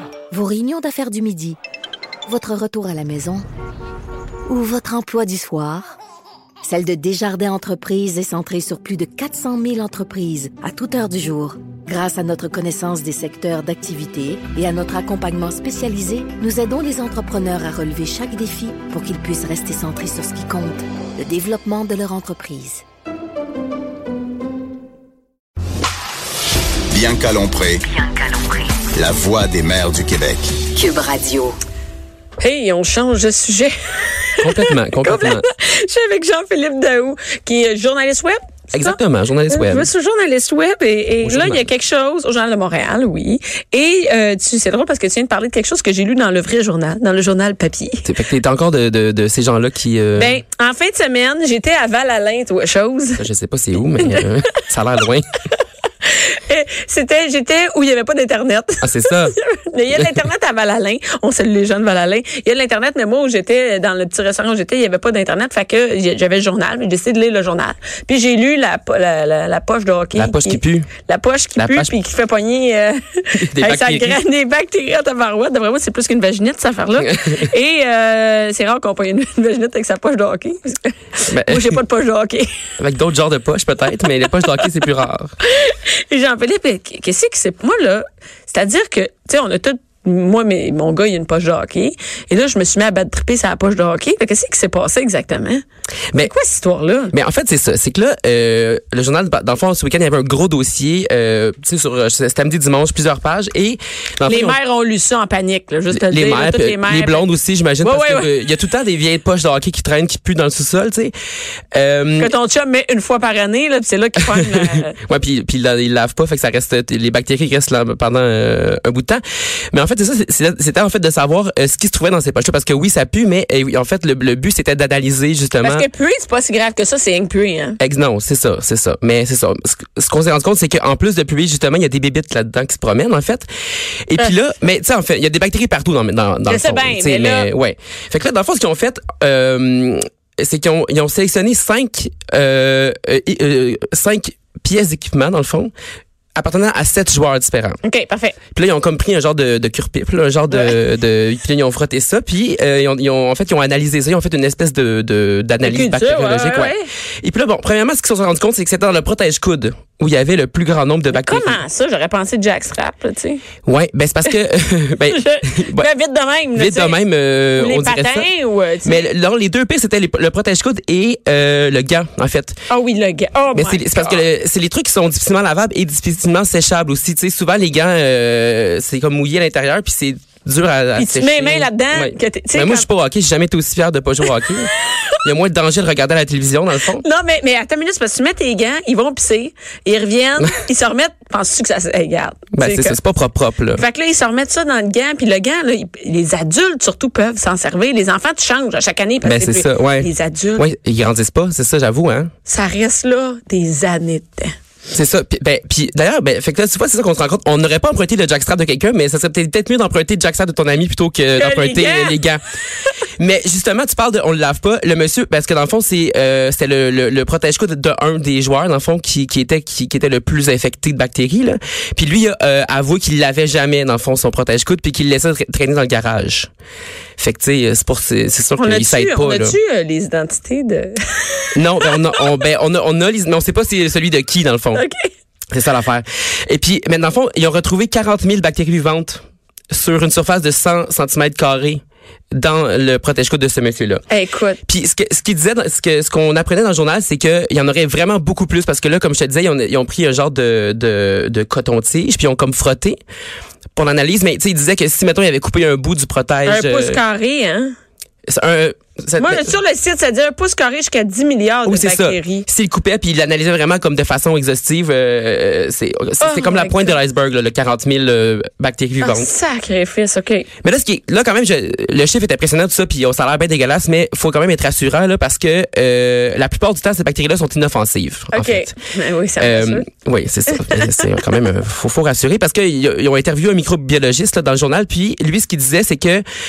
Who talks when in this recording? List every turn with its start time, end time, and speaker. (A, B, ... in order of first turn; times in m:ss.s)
0:00.3-0:01.6 A
0:02.3-0:03.5 A
0:04.5-0:06.0 A
0:06.6-0:22.8 A
0:26.9-0:30.7 B
0:27.9-0:28.7 A
0:30.7-0:31.6 A
0:32.4-0:48.1 C
0:34.4-0:35.4 D
0:38.7-0:39.9 D
0:41.2-0:41.7 D
0:48.0-0:50.4 D
0:50.1-0:53.2 C
0:53.2-0:55.3 D
0:54.0-0:54.3 C
0:56.0-1:22.5 C
0:58.8-0:59.4 D
1:10.1-1:10.9 D
1:11.6-1:11.9 D
1:13.4-1:14.2 D
1:17.0-1:17.4 D
1:21.3-1:21.8 D
1:22.8-1:25.3 D
1:25.4-1:35.6 C
1:36.2-1:37.1 C
1:37.1-1:44.6 D
1:44.2-1:47.3 C
1:45.9-1:51.1 D
1:47.8-1:48.3 C
1:51.7-1:52.3 D
1:52.2-1:54.9 C
1:54.2-1:59.2 D
1:59.7-2:05.8 D
2:05.6-2:07.8 C
2:07.8-2:13.5 D
2:14.1-2:25.7 D
2:16.4-2:17.5 C
2:26.4-2:27.8 D
2:27.8-2:28.4 C
2:28.5-2:41.6 D
2:30.5-2:30.8 C
2:35.6-2:36.9 C
2:41.1-2:43.4 C
2:43.6-2:45.9 D
2:45.0-2:47.0 C
2:46.5-2:48.3 D
2:47.6-2:49.1 C
2:48.8-2:52.6 D
2:52.7-2:54.2 C
2:53.5-3:04.7 D
3:01.0-3:02.9 C
3:05.2-3:07.0 D
3:07.0-3:13.0 C
3:12.5-3:13.8 D
3:13.7-3:20.7 C
3:19.2-3:22.3 D
3:22.4-3:24.5 C
3:24.9-3:32.4 D
3:31.3-3:32.2 C
3:33.2-3:46.5 D
3:47.2-3:49.6 D
3:48.6-3:52.2 C
3:51.5-3:54.8 D
3:54.7-3:55.1 C
3:55.5-4:01.8 D
4:02.3-4:04.0 D
4:04.1-4:04.6 C
4:04.6-4:13.0 D
4:13.8-4:17.0 D
4:16.4-4:17.7 C
4:18.3-4:19.6 D
4:19.2-4:22.5 C
4:21.6-4:29.3 D
4:26.2-4:27.0 C
4:29.0-4:30.5 C
4:30.6-4:38.7 D
4:38.3-4:39.8 C
4:39.4-4:46.2 D
4:40.6-4:41.1 C